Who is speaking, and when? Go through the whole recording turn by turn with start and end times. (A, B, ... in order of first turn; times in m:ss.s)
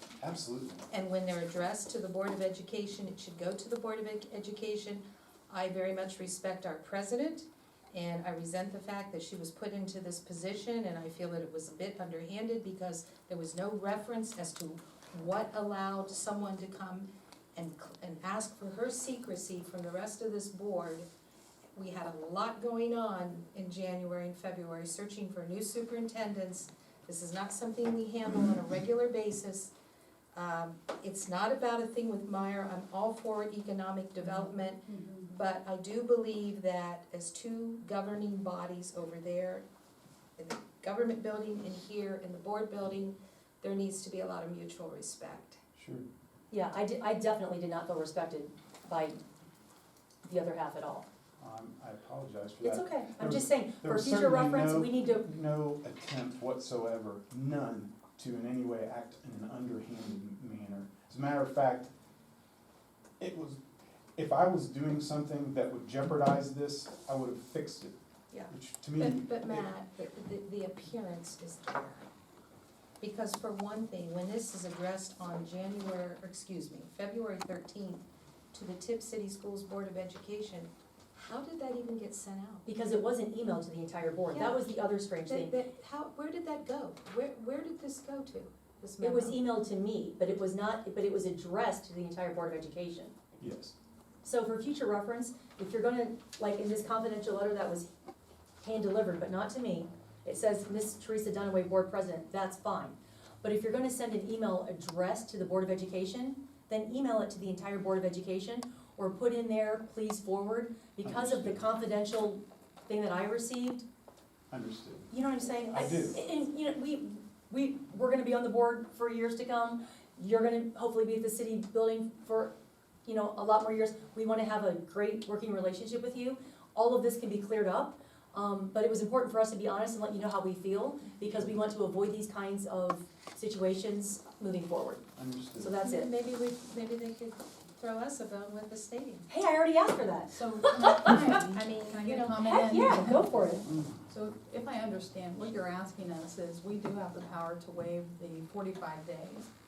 0:00.2-0:00.8 A
0:00.9-0:21.1 B
0:21.8-0:29.7 B
0:30.3-0:39.6 B
0:34.3-0:35.3 C
0:40.4-0:45.6 B
0:45.8-0:46.1 A
0:46.5-0:49.2 D
0:50.2-0:51.1 D
0:51.4-1:01.9 A
0:52.6-0:55.2 D
1:03.2-1:03.6 A
1:04.2-1:08.0 A
1:08.3-1:12.1 B
1:08.5-1:09.7 A
1:13.0-1:22.6 B
1:22.7-1:25.5 D
1:24.3-1:24.7 B
1:25.3-1:29.4 B
1:29.0-1:33.1 D
1:33.4-1:33.8 A
1:34.2-1:37.9 D
1:38.6-1:53.8 D
1:51.0-1:51.6 A
1:54.5-1:55.1 A
1:55.1-2:02.5 D
1:55.7-1:56.2 A
2:03.1-2:16.1 D
2:15.2-2:15.7 A
2:15.8-2:19.3 B
2:19.3-2:21.3 D
2:20.3-2:29.5 C
2:21.3-2:22.7 B
2:22.5-2:23.7 D